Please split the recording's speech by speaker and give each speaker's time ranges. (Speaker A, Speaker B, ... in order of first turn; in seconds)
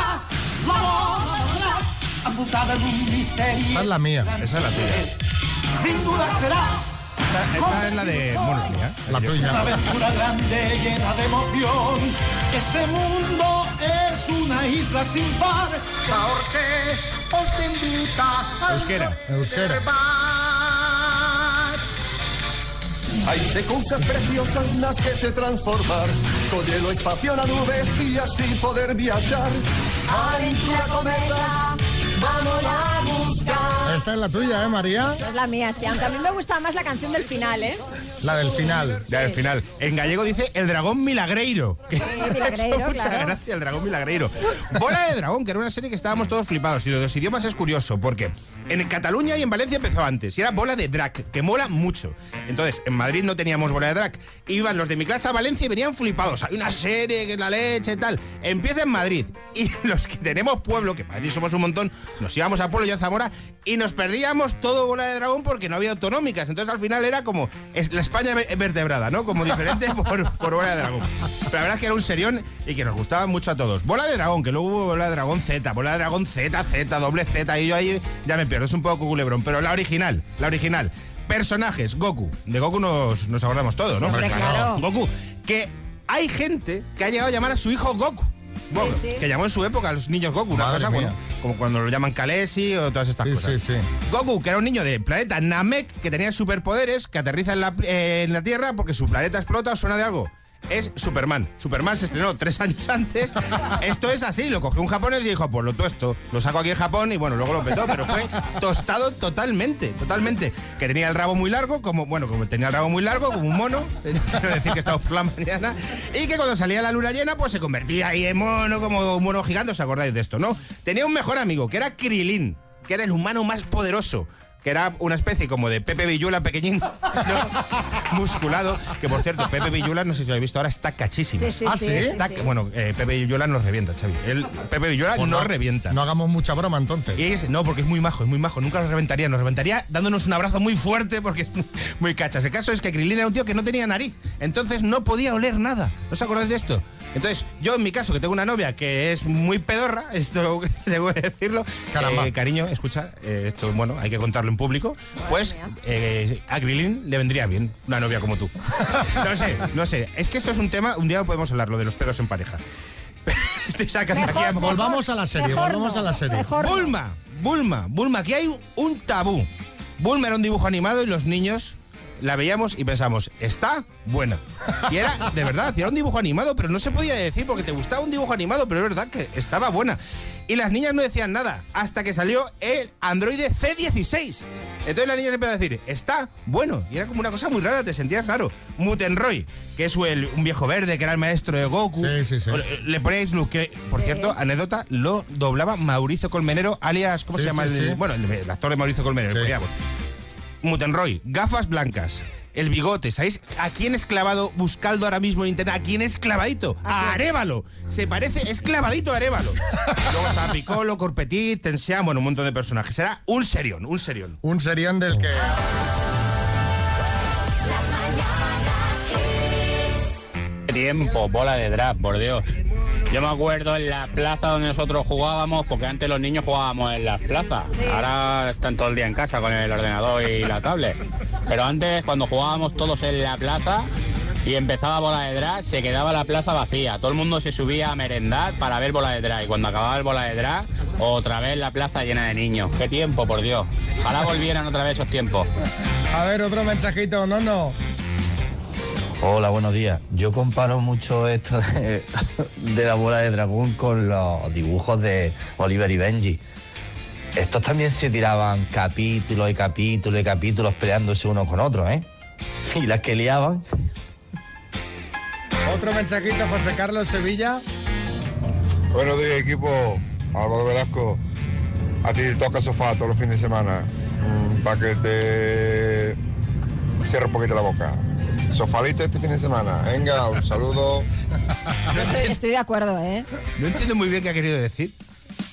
Speaker A: 3.7-4.3, 9.1-9.9, 19.2-19.9, 33.8-35.2, 38.2-39.0, 84.0-84.8, 90.5-91.2, 93.2-93.9, 131.6-132.2, 135.2-137.2, 151.9-152.3, 164.4-166.5, 192.0-192.6, 197.3-198.0, 214.4-215.6, 246.1-247.8, 265.7-267.6
Speaker B: 4.3-5.1, 7.3-9.5, 18.6-19.2, 39.1-127.5, 128.1-136.0, 137.2-158.6, 159.2-162.6, 163.3-164.9, 166.6-199.7, 200.6-214.4, 282.0-282.3, 283.6-284.9
Speaker C: 23.2-29.6
Speaker D: 30.1-33.9, 35.2-37.8, 42.0-43.4, 84.0-84.8, 88.7-89.3, 131.4-132.5, 155.2-155.7, 164.1-166.9, 194.0-194.4, 206.8-207.2, 227.8-228.1, 281.9-283.3
Speaker E: 220.7-222.4, 223.1-231.0, 231.5-233.9, 234.4-245.5
Speaker F: 249.2-252.0, 252.6-256.4, 257.4-262.0, 262.8-263.6
Speaker G: 268.9-271.2, 272.0-276.2, 277.0-278.0, 278.5-281.1